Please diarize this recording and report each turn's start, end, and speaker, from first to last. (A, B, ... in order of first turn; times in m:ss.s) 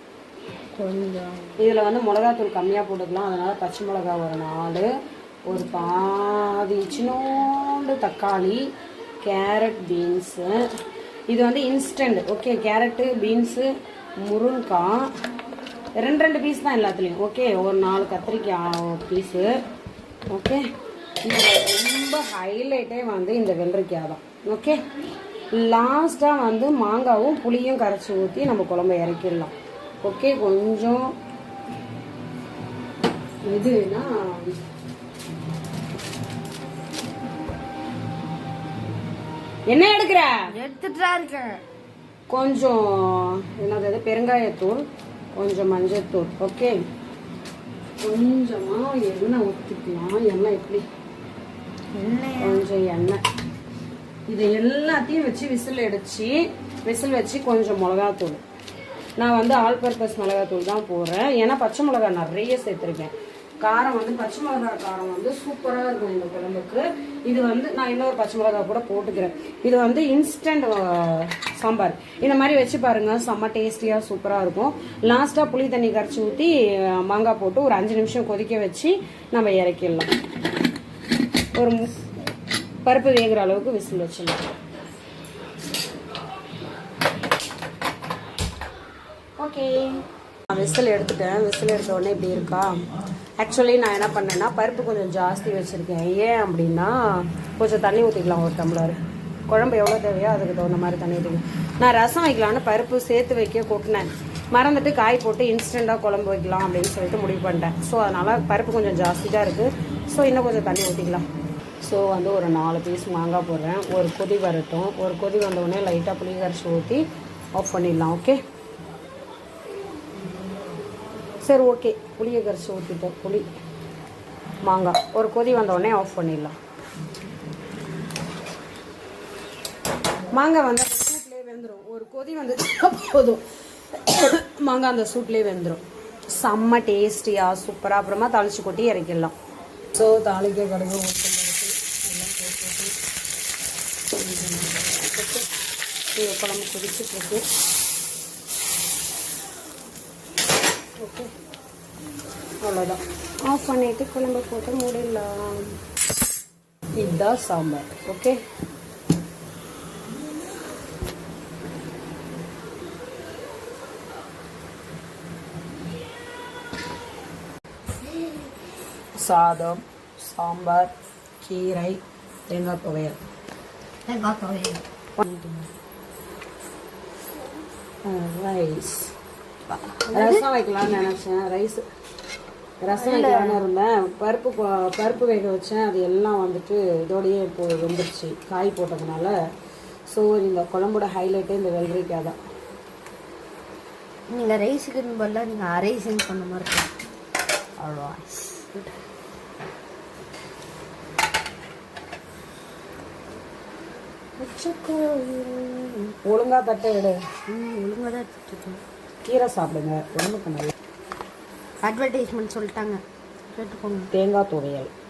0:00.7-0:01.5 A
0:01.6-0:04.9 B
0:05.5-0:08.6 B
0:09.2-0:10.6 B
0:11.3-0:13.7 B
0:14.2-0:15.1 B
0:16.0-0:19.5 B
0:20.3-0:20.6 B
0:21.2-0:24.8 B
0:25.5-0:31.1 B
0:33.4-0:34.5 B
0:39.7-0:40.4 B
0:40.5-0:41.6 A
0:42.3-0:46.8 B
0:48.0-0:50.8 B
0:51.9-0:52.6 A
0:52.4-0:53.2 B
0:54.3-0:58.4 B
0:59.2-1:20.1 B
1:21.5-1:21.9 B
1:22.8-1:24.4 B
1:29.5-1:29.9 B
1:30.5-1:32.8 B
1:33.4-1:51.2 B
1:51.8-1:58.4 B
2:01.4-2:03.4 B
2:04.6-2:06.5 B
2:10.3-2:19.3 B
2:19.9-2:22.9 B
2:24.2-2:25.5 B
2:26.1-2:27.4 B
2:31.0-2:31.3 B
2:32.6-2:35.8 B
2:36.9-2:38.4 B
2:49.2-2:53.2 B
2:54.1-2:55.7 A
2:58.0-2:59.1 B
2:59.7-3:00.4 A
3:00.1-3:01.8 B
3:02.8-3:09.3 B
3:02.9-3:03.6 A
3:10.1-3:12.4 B
3:14.3-3:16.9 A
3:17.8-3:18.8 A
3:24.4-3:27.2 B
3:27.5-3:28.8 A
3:29.2-3:30.7 B
3:31.8-3:34.1 A
3:34.1-3:34.9 B